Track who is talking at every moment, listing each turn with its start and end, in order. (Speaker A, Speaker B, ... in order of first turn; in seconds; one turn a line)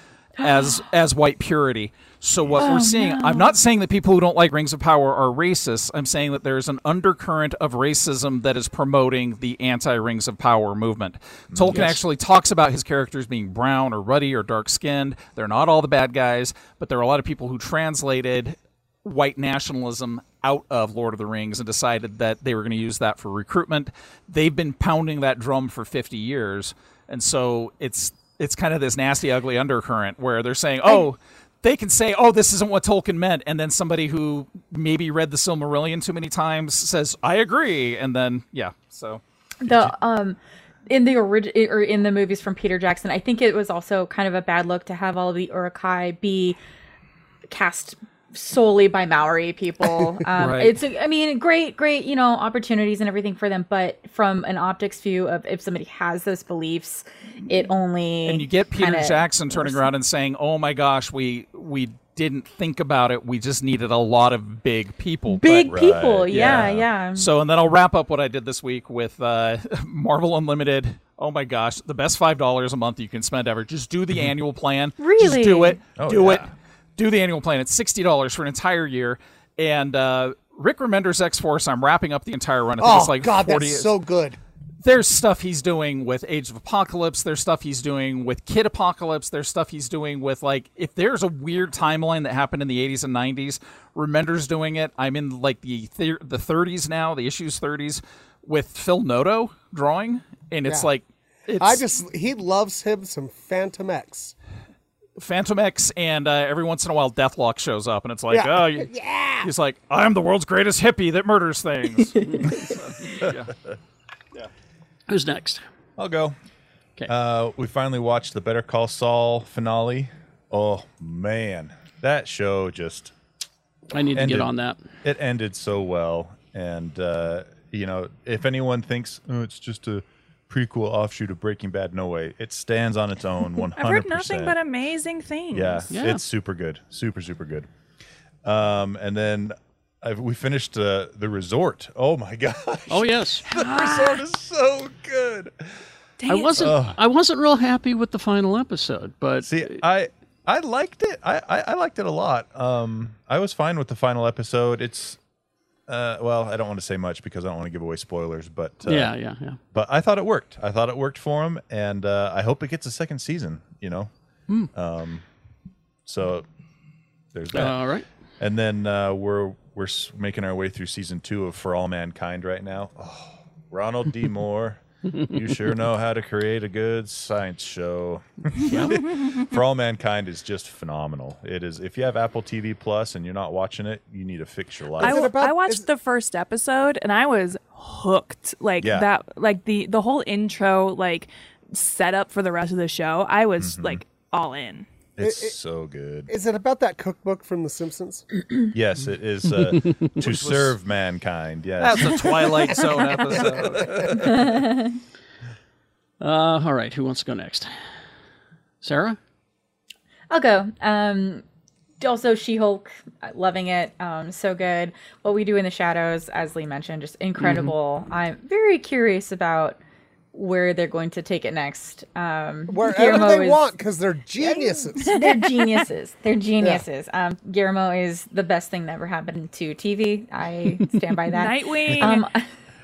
Speaker A: 0.4-39.2
Speaker B: 0.4-0.8
Speaker B: 2.6-3.5
Speaker C: 11.5-12.0
Speaker B: 39.6-46.6
Speaker B: 47.5-59.9
Speaker A: 50.4-50.7
Speaker A: 58.3-65.6
Speaker B: 65.3-67.3
Speaker C: 65.5-66.6
Speaker A: 66.3-83.9
Speaker B: 75.0-75.8
Speaker C: 76.0-76.5
Speaker D: 82.8-84.4
Speaker A: 84.8-101.9
Speaker D: 101.6-104.3
Speaker A: 105.2-113.5
Speaker D: 108.3-109.5
Speaker E: 115.1-115.6
Speaker C: 116.0-116.3
Speaker C: 117.1-123.1
Speaker E: 123.9-124.8
Speaker C: 124.2-124.5
Speaker C: 125.0-134.6
Speaker F: 133.8-135.9
Speaker C: 135.5-137.7
Speaker E: 135.9-136.2
Speaker C: 138.4-145.5
Speaker E: 142.9-143.5
Speaker F: 143.5-144.2
Speaker F: 146.2-146.8
Speaker E: 146.3-149.6
Speaker C: 146.6-147.0
Speaker C: 149.4-155.2
Speaker C: 155.9-159.1
Speaker E: 158.9-159.6
Speaker C: 159.7-164.1
Speaker C: 164.7-165.2
Speaker C: 166.1-166.5
Speaker C: 167.3-167.8
Speaker E: 167.5-168.1
Speaker C: 168.4-185.3
Speaker F: 178.7-179.5
Speaker D: 185.0-185.9
Speaker F: 185.0-194.9
Speaker C: 188.8-189.1
Speaker C: 193.6-194.0
Speaker C: 195.2-196.3
Speaker D: 195.2-195.6
Speaker D: 196.3-198.2
Speaker C: 198.7-204.5
Speaker A: 200.2-200.8
Speaker A: 201.8-204.3
Speaker B: 204.1-205.0
Speaker E: 206.2-207.7
Speaker E: 208.8-209.2
Speaker B: 210.3-211.4
Speaker B: 212.0-219.8
Speaker E: 217.4-217.7
Speaker B: 220.3-223.7
Speaker D: 222.7-225.2
Speaker B: 224.4-232.5
Speaker F: 225.0-225.9
Speaker F: 231.3-232.3